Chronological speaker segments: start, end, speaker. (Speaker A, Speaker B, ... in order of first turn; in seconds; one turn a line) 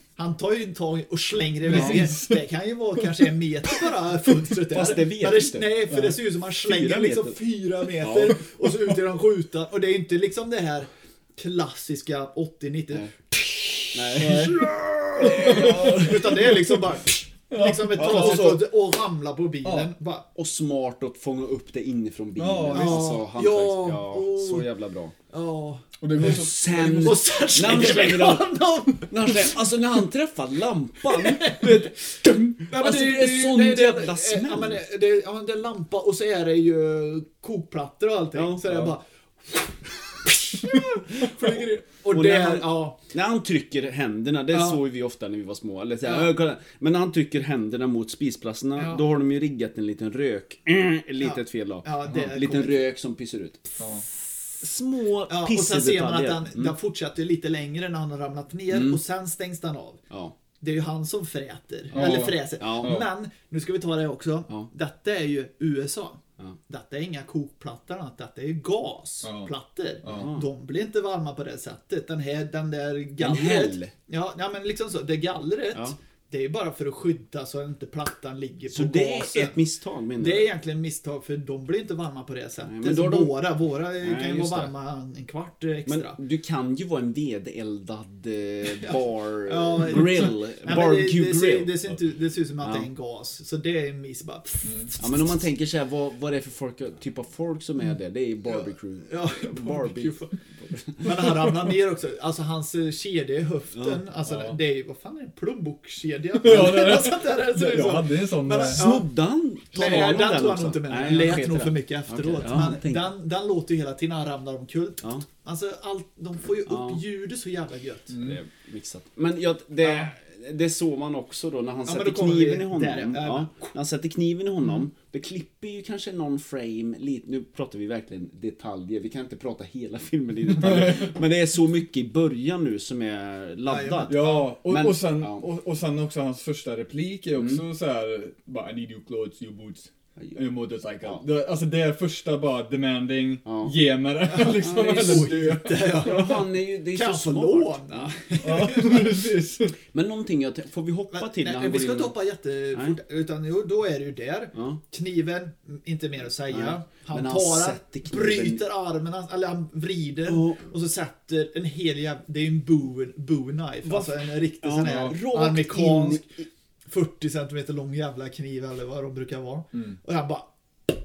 Speaker A: 0.2-20.3
Speaker B: 1.7-2.5
Speaker C: 1.7-2.1
Speaker C: 4.7-7.4
Speaker C: 8.0-8.4
Speaker C: 13.9-14.6
Speaker B: 14.2-16.8
Speaker C: 15.2-16.1
Speaker B: 17.5-18.6
Speaker C: 17.9-18.6
Speaker B: 19.6-19.9
Speaker C: 20.3-25.1
Speaker B: 22.4-23.1
Speaker A: 22.7-24.7
Speaker A: 25.3-29.6
Speaker B: 26.0-27.9
Speaker C: 26.1-34.8
Speaker A: 31.1-31.9
Speaker A: 32.6-43.0
Speaker C: 38.3-38.8
Speaker C: 42.1-53.8
Speaker A: 44.5-44.8
Speaker A: 46.0-46.3
Speaker A: 48.8-49.0
Speaker A: 51.2-52.9
Speaker B: 53.8-54.0
Speaker C: 54.6-56.7
Speaker A: 55.3-60.0
Speaker C: 58.7-59.0
Speaker C: 60.1-60.3
Speaker A: 60.6-79.6
Speaker B: 61.9-63.1
Speaker C: 61.9-63.0
Speaker B: 69.2-69.5
Speaker B: 70.0-70.3
Speaker C: 70.0-70.5
Speaker C: 73.2-73.9
Speaker C: 78.7-80.5
Speaker A: 80.2-86.2
Speaker C: 82.6-84.7
Speaker C: 85.8-91.8
Speaker A: 88.6-95.3
Speaker C: 92.6-92.9
Speaker B: 94.6-94.9
Speaker C: 95.0-101.3
Speaker A: 98.5-100.4
Speaker A: 101.0-109.2
Speaker B: 104.2-104.6
Speaker B: 106.4-108.8
Speaker C: 108.7-113.1
Speaker A: 109.7-118.2
Speaker B: 109.8-110.3
Speaker C: 116.7-117.0
Speaker B: 118.1-118.4
Speaker C: 118.1-135.4
Speaker A: 119.8-120.1
Speaker A: 121.8-123.7
Speaker B: 130.6-131.2
Speaker A: 133.7-134.5
Speaker B: 134.1-146.5
Speaker C: 137.4-137.6
Speaker C: 143.4-143.7
Speaker A: 144.2-149.2
Speaker C: 144.4-148.2
Speaker B: 148.4-149.8
Speaker C: 149.8-152.2
Speaker A: 151.1-166.3
Speaker C: 154.5-154.8
Speaker C: 156.5-158.6
Speaker C: 160.2-160.6
Speaker C: 163.8-166.4
Speaker B: 164.8-165.2
Speaker A: 166.8-170.5